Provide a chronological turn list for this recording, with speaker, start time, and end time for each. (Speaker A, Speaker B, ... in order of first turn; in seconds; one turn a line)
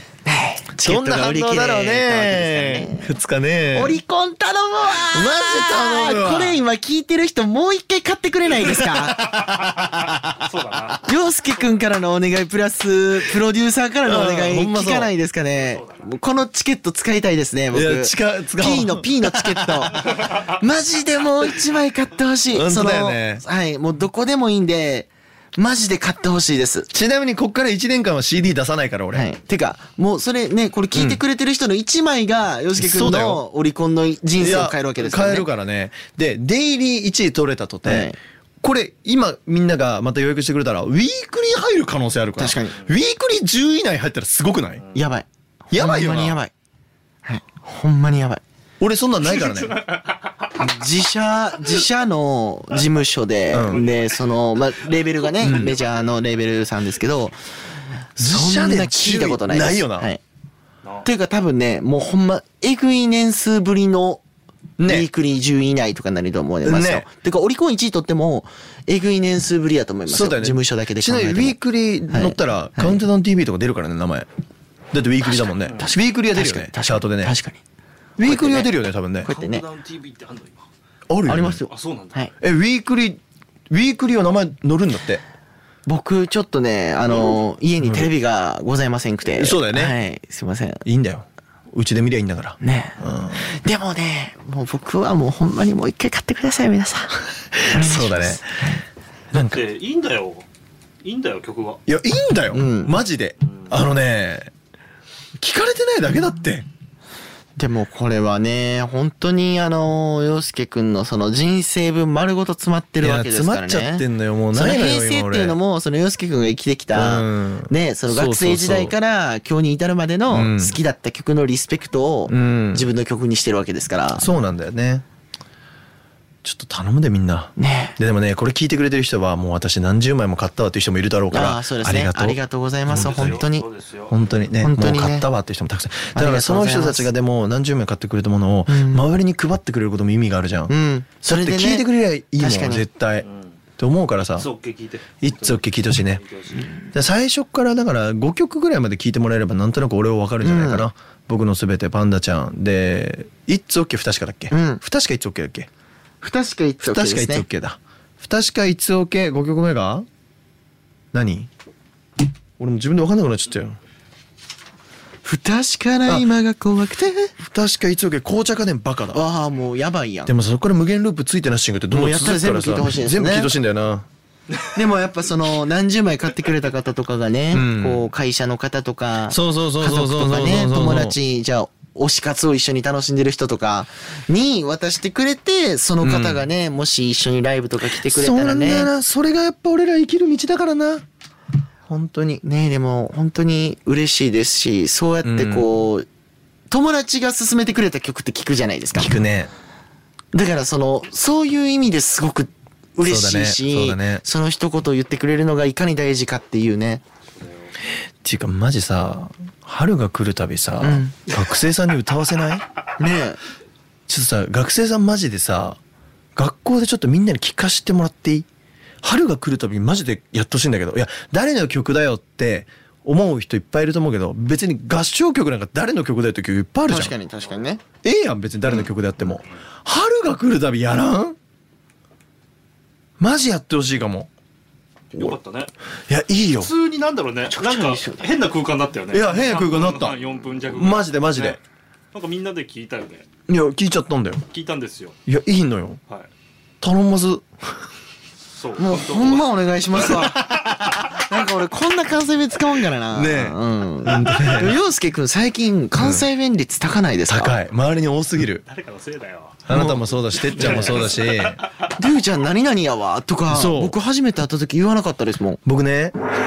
Speaker A: 0.2-3.1
Speaker B: 0.8-4.0
Speaker A: 3.7-9.3
Speaker B: 4.9-6.6
Speaker B: 8.5-10.4
Speaker C: 10.1-11.1
Speaker A: 11.0-26.9
Speaker B: 14.0-15.1
Speaker C: 15.5-16.1
Speaker B: 17.7-19.9
Speaker B: 22.5-23.4
Speaker B: 26.9-29.3
Speaker A: 29.1-35.5
Speaker B: 30.9-31.2
Speaker B: 32.8-33.4
Speaker B: 34.4-44.8
Speaker A: 37.8-38.2
Speaker A: 42.4-42.8
Speaker A: 44.9-46.5
Speaker B: 45.7-46.4
Speaker A: 47.2-48.4
Speaker B: 48.8-49.8
Speaker C: 49.2-50.5
Speaker A: 50.6-57.4
Speaker B: 53.5-53.9
Speaker B: 55.4-55.7
Speaker A: 58.1-60.2
Speaker B: 58.2-60.1
Speaker A: 61.0-64.2
Speaker B: 64.8-65.1
Speaker A: 64.8-71.6
Speaker B: 66.6-67.0
Speaker B: 70.1-74.3
Speaker A: 72.1-73.0
Speaker B: 74.9-77.3
Speaker A: 75.8-77.6
Speaker B: 78.2-79.3
Speaker A: 78.2-78.7
Speaker A: 79.2-79.6
Speaker C: 79.3-80.7
Speaker B: 81.1-81.6
Speaker A: 81.2-82.3
Speaker C: 81.7-82.2
Speaker B: 82.4-85.2
Speaker A: 85.8-90.8
Speaker B: 87.8-88.1
Speaker B: 89.2-89.9
Speaker B: 90.8-93.5
Speaker A: 92.6-98.6
Speaker B: 97.6-98.5
Speaker C: 99.3-100.5
Speaker B: 99.3-99.6
Speaker C: 101.0-101.8
Speaker B: 101.8-104.5
Speaker A: 102.5-103.0
Speaker C: 103.5-103.7
Speaker B: 105.4-106.7
Speaker A: 107.5-124.3
Speaker B: 113.0-115.5
Speaker B: 116.9-118.9
Speaker B: 120.3-120.8
Speaker B: 122.3-122.9
Speaker B: 124.2-125.0
Speaker B: 126.4-133.5
Speaker A: 127.6-128.0
Speaker A: 131.3-133.7
Speaker C: 132.9-134.2
Speaker B: 134.1-143.3
Speaker A: 134.6-135.3
Speaker A: 136.1-137.1
Speaker A: 138.7-139.1
Speaker A: 140.7-142.8
Speaker C: 143.2-143.6
Speaker B: 143.8-144.5
Speaker C: 144.2-146.8
Speaker B: 145.2-146.2
Speaker B: 146.8-155.7
Speaker A: 150.4-150.9
Speaker A: 154.5-154.8
Speaker A: 156.2-157.4
Speaker B: 156.8-160.1
Speaker B: 161.1-161.5
Speaker B: 162.6-163.8
Speaker A: 165.2-167.3
Speaker B: 167.4-169.2
Speaker A: 169.1-170.3
Speaker B: 170.2-174.1
Speaker A: 171.9-173.5
Speaker A: 174.7-188.9
Speaker B: 177.5-178.1
Speaker B: 179.3-181.2
Speaker B: 186.0-186.4
Speaker B: 187.9-191.0
Speaker B: 191.9-192.4
Speaker A: 192.4-196.1
Speaker B: 195.2-195.7
Speaker A: 196.7-199.1
Speaker B: 198.9-199.5
Speaker A: 200.3-207.0
Speaker B: 203.0-204.2
Speaker C: 207.3-207.7
Speaker B: 208.2-212.7
Speaker A: 210.8-211.2
Speaker A: 213.0-213.4
Speaker B: 214.1-215.8
Speaker B: 216.3-218.4
Speaker B: 219.0-227.1
Speaker A: 226.9-227.8
Speaker B: 228.0-231.3
Speaker B: 233.2-234.3
Speaker C: 235.1-235.7
Speaker B: 236.1-236.7
Speaker C: 236.6-241.6
Speaker A: 237.5-238.3
Speaker B: 239.1-241.6
Speaker C: 242.1-243.3
Speaker B: 243.5-244.4
Speaker C: 244.5-245.1
Speaker B: 245.2-246.0
Speaker B: 246.8-247.4
Speaker C: 248.5-250.4
Speaker A: 248.8-257.6
Speaker B: 250.3-250.9
Speaker B: 253.1-254.8
Speaker B: 255.9-256.3
Speaker B: 257.3-258.6
Speaker C: 258.6-261.7
Speaker B: 259.6-261.6
Speaker A: 259.7-260.0
Speaker A: 260.6-261.1
Speaker A: 261.9-265.6
Speaker B: 263.5-263.9
Speaker B: 265.6-266.1